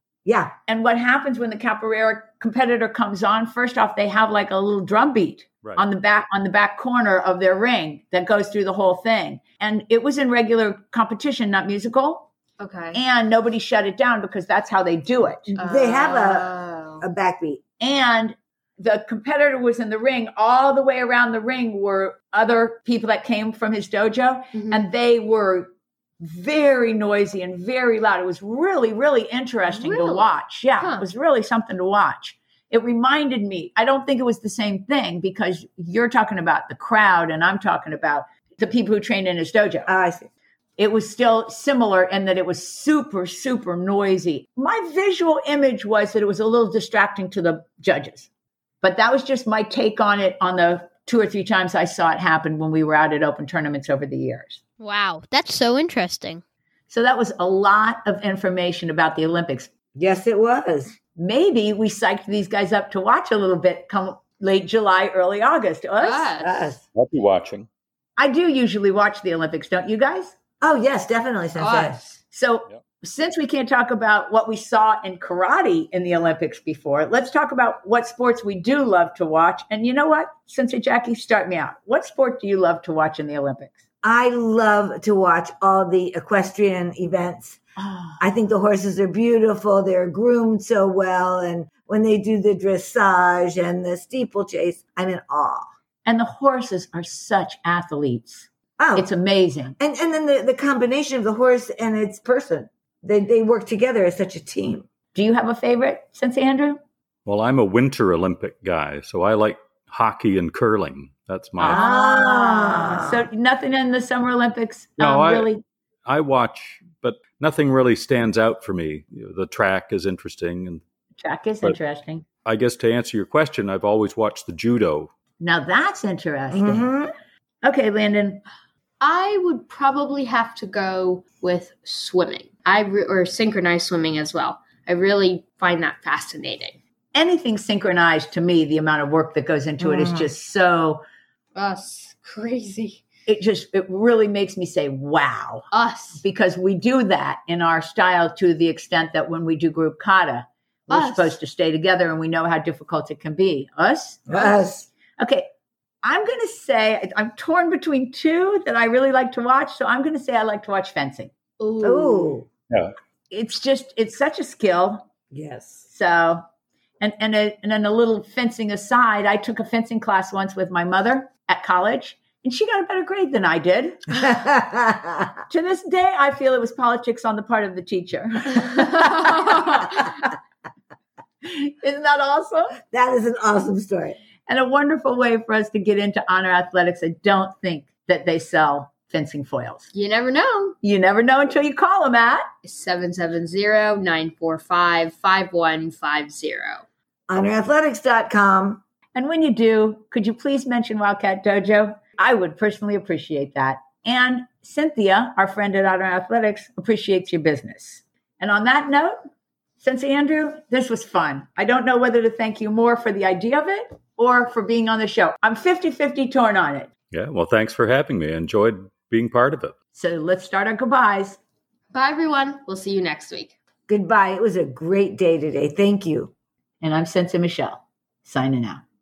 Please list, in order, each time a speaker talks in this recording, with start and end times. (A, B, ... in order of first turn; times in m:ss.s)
0:00.2-0:00.5 A
0:00.7-0:12.3 B
0:12.6-0:13.0 C
0:12.9-0:15.5 B
0:15.5-0:17.1 C
0:15.6-0:17.6 A
0:17.8-0:39.9 B
0:24.5-0:24.8 C
0:29.7-0:30.3 C
0:30.8-0:31.0 C
0:39.9-0:40.3 A
0:40.8-0:48.3 B
0:48.8-0:54.6 B
0:54.8-0:56.4 C
0:56.9-0:59.7 B
1:00.0-1:00.9 A
1:01.2-1:06.3 B
1:06.0-1:06.7 C
1:06.4-1:06.8 A
1:06.9-1:07.7 D
1:08.2-1:10.3 B
1:10.6-1:12.0 A
1:11.6-1:12.2 C
1:12.3-1:23.7 B
1:24.0-1:27.6 A
1:27.8-1:28.2 B
1:28.2-1:35.7 A
1:36.0-1:39.8 B
1:38.8-1:39.1 A
1:39.8-1:44.8 A
1:45.1-1:46.8 B
1:47.2-1:51.8 D
1:51.6-1:55.6 B
1:51.6-1:53.3 A
1:55.0-1:55.5 D
1:56.0-2:00.8 D
2:01.2-2:02.2 B
2:02.4-2:05.1 D
2:05.4-2:06.9 B
2:06.5-2:07.1 A
2:07.6-2:08.4 B
2:09.0-2:16.8 C
2:17.1-2:21.0 B
2:19.8-2:20.3 A
2:21.6-2:23.0 C
2:23.3-2:25.7 B
2:25.7-2:26.2 C
2:26.2-2:34.6 B
2:30.9-2:31.4 C
2:34.3-2:34.9 A
2:35.2-2:35.5 B
2:36.0-2:41.3 B
2:41.6-2:42.3 C
2:41.8-2:42.5 A
2:43.3-2:45.1 B
2:45.3-2:45.8 A
2:45.9-2:46.4 B
2:47.0-2:54.2 B
2:54.1-2:55.3 A
2:55.5-3:00.2 B
2:59.2-2:59.8 C
3:01.4-3:02.8 B
3:02.9-3:04.2 A
3:04.5-3:09.9 B
3:09.9-3:10.8 C
3:10.8-3:12.5 B
3:12.6-3:16.8 C
3:17.3-3:18.8 A
3:19.1-3:29.2 B
3:29.8-3:36.9 B
3:37.1-3:39.7 D
3:39.9-3:41.4 B
3:41.9-3:43.5 C
3:43.9-3:46.3 A
3:46.8-3:48.8 B